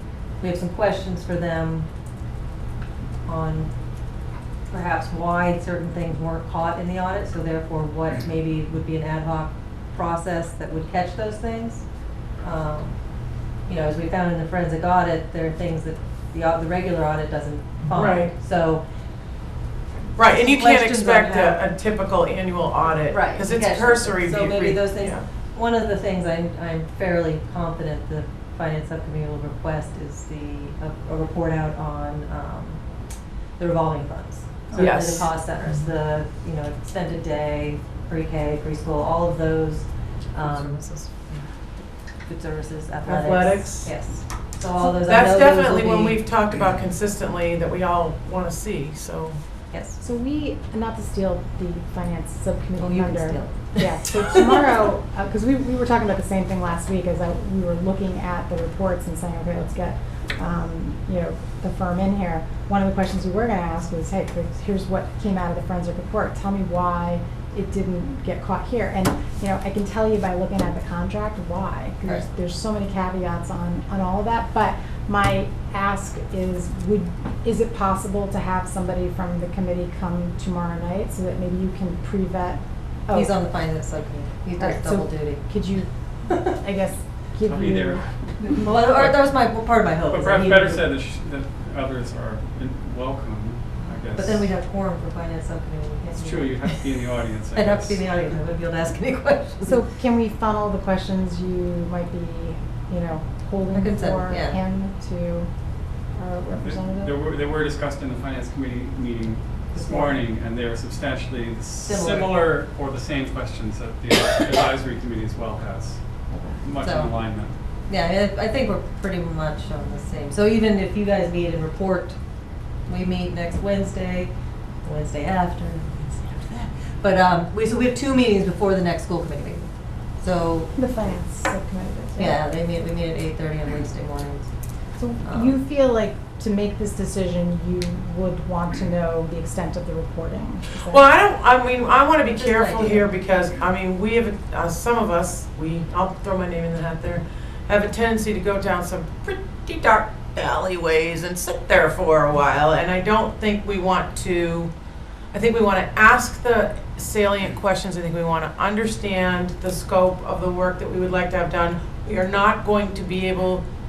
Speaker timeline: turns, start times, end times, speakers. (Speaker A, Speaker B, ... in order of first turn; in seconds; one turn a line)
Speaker A: 0.4-1.9
Speaker A: 3.2-3.7
Speaker A: 4.7-11.8
Speaker A: 12.4-13.0
Speaker A: 13.7-18.8
Speaker B: 17.9-18.3
Speaker B: 20.1-25.2
Speaker A: 20.2-21.6
Speaker A: 23.1-32.8
Speaker A: 33.6-40.8
Speaker B: 34.7-35.3
Speaker B: 40.4-41.1
Speaker A: 42.2-46.2
Speaker B: 43.0-43.9
Speaker B: 44.8-49.4
Speaker A: 49.7-50.0
Speaker C: 50.0-83.3
Speaker A: 52.8-53.9
Speaker A: 83.1-85.4
Speaker C: 84.6-85.9
Speaker A: 86.2-86.5
Speaker C: 86.4-88.0
Speaker D: 87.4-88.0
Speaker A: 88.4-90.8
Speaker D: 90.1-94.5
Speaker A: 94.1-96.8
Speaker D: 96.1-98.0
Speaker A: 97.5-99.8
Speaker C: 99.7-105.5
Speaker A: 103.7-104.6
Speaker C: 106.1-107.1
Speaker D: 106.6-116.0
Speaker A: 111.8-112.4
Speaker C: 116.3-116.6
Speaker D: 116.6-117.6
Speaker A: 116.8-117.2
Speaker A: 117.9-122.2
Speaker A: 122.9-124.3
Speaker A: 124.8-130.8
Speaker C: 130.8-132.4
Speaker A: 132.2-134.5
Speaker C: 134.9-141.1
Speaker A: 135.2-135.6
Speaker B: 140.9-154.7
Speaker A: 142.3-143.1
Speaker B: 155.3-163.7